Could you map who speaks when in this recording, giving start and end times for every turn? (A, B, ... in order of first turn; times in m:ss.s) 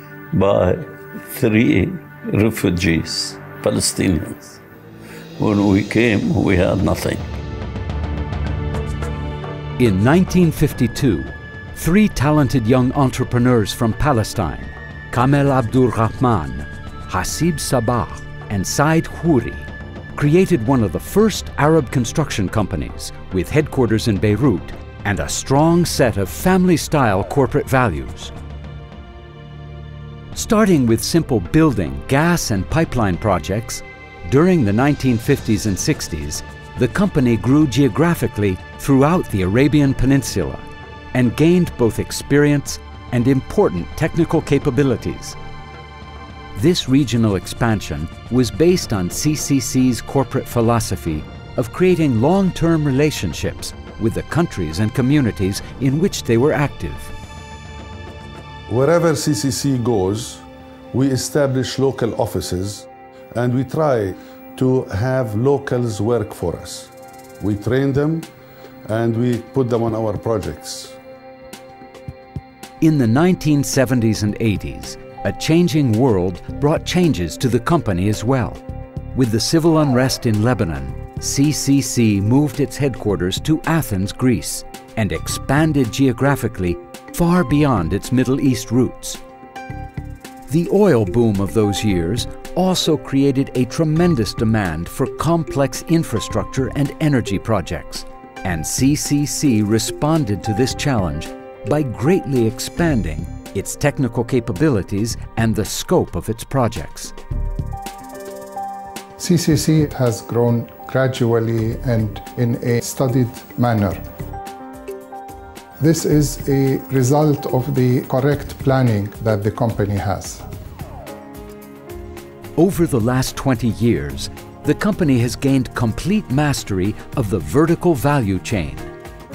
0:00.3-0:04.6 A
0:05.4-0:07.2 A
0:09.8-0:28.3 B
0:30.3-0:45.4 B
0:46.6-0:57.1 B
0:58.7-1:08.3 C
1:08.9-1:11.0 C
1:12.8-1:18.6 B
1:19.1-1:29.2 B
1:30.5-1:47.2 B
1:49.2-1:54.0 D
1:55.8-2:00.4 D
2:02.6-2:08.9 B